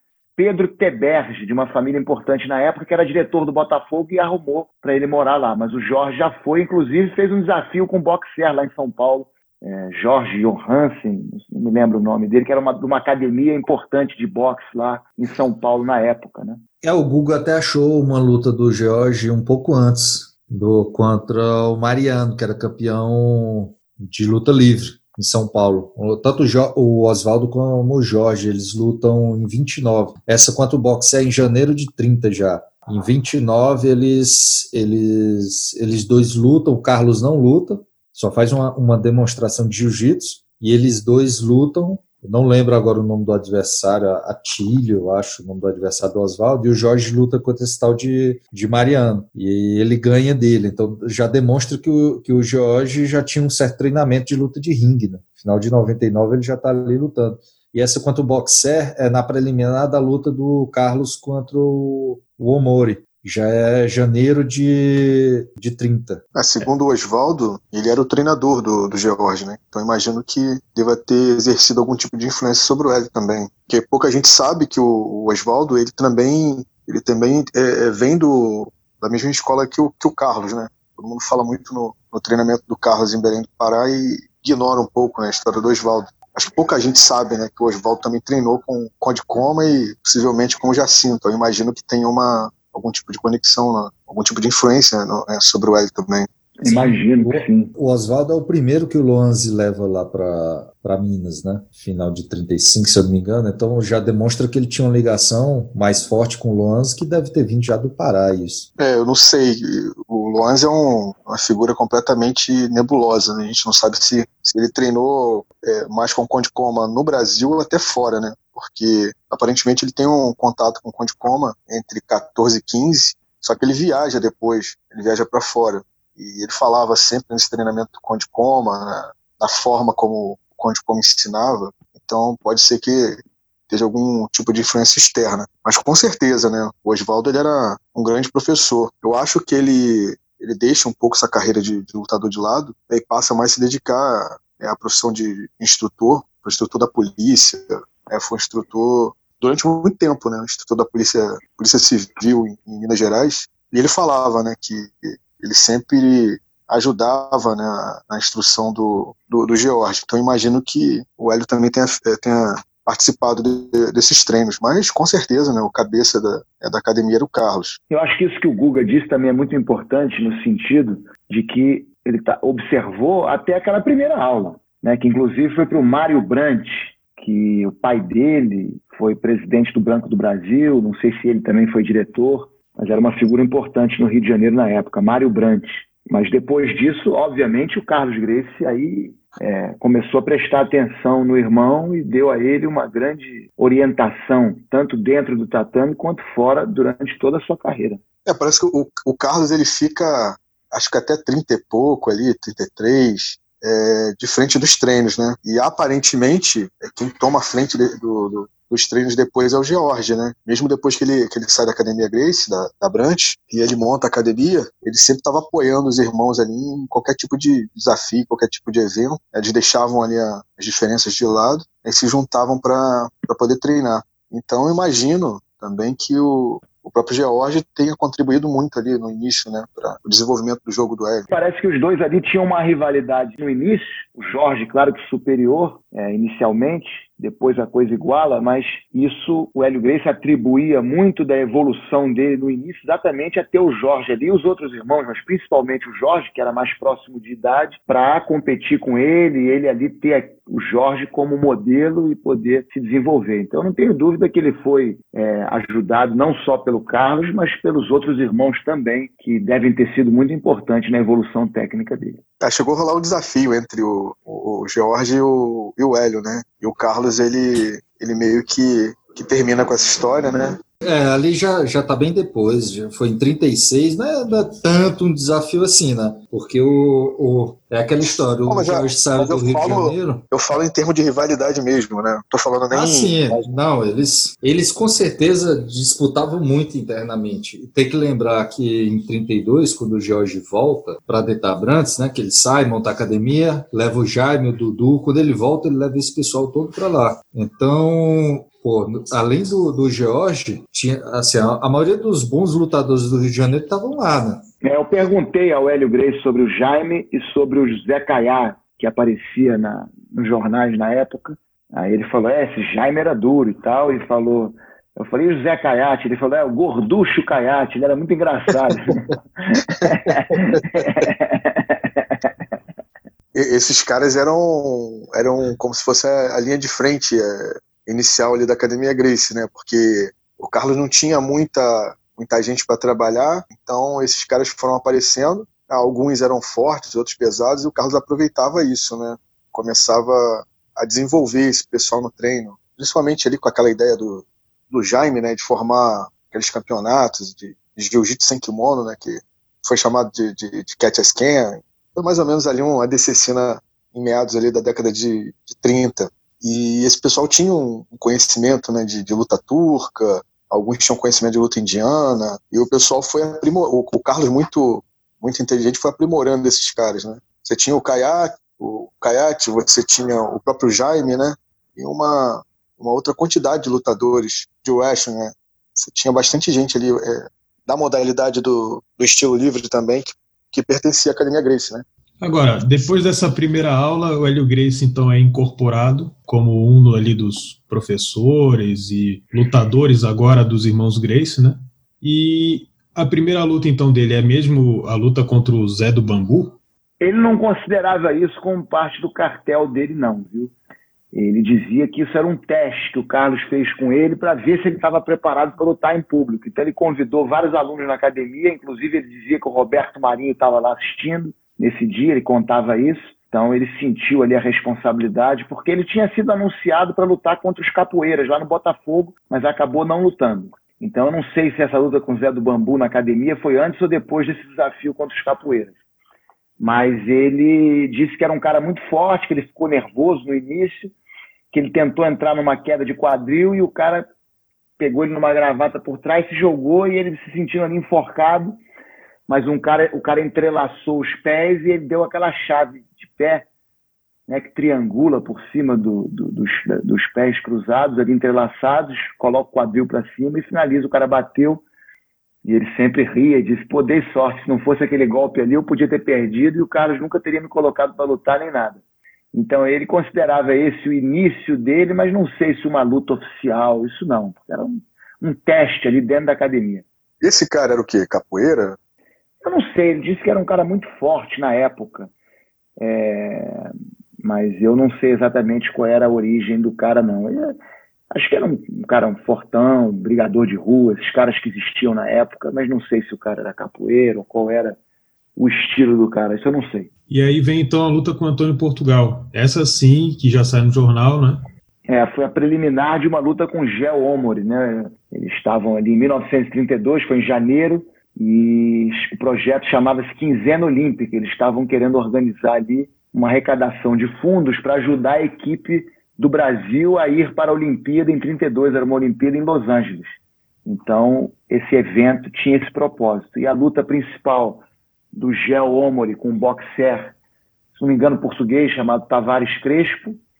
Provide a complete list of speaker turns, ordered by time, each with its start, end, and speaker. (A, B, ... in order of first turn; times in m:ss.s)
0:00.4-0:16.6 A
0:16.8-1:06.7 B
1:06.3-1:36.3 C
1:36.6-1:37.7 A
1:36.6-1:48.7 B
1:48.8-2:47.8 C
2:47.9-3:18.0 A
3:18.2-3:51.3 C
3:51.3-4:22.2 A
4:22.4-4:30.6 C
4:30.8-4:40.2 B
4:38.4-4:43.5 C
4:42.7-5:04.4 B
5:04.6-5:22.3 A
5:19.8-5:21.1 C
5:23.3-6:21.8 C
6:22.2-6:36.6 D
6:37.0-6:40.5 A
6:41.1-7:05.7 A
7:06.6-7:10.9 A
7:11.5-7:14.0 A
7:14.8-7:18.6 A
7:19.3-7:23.4 A
7:24.3-7:31.6 A
7:32.4-7:38.8 A
7:39.3-7:46.8 A
7:47.2-7:48.8 C
7:49.4-7:52.1 A
7:52.8-7:53.7 A
7:54.2-7:57.5 A
7:58.1-8:04.8 A
8:05.4-8:06.9 A
8:07.1-8:11.4 D
8:11.9-8:34.6 A
8:35.1-8:37.1 A
8:37.8-8:40.2 A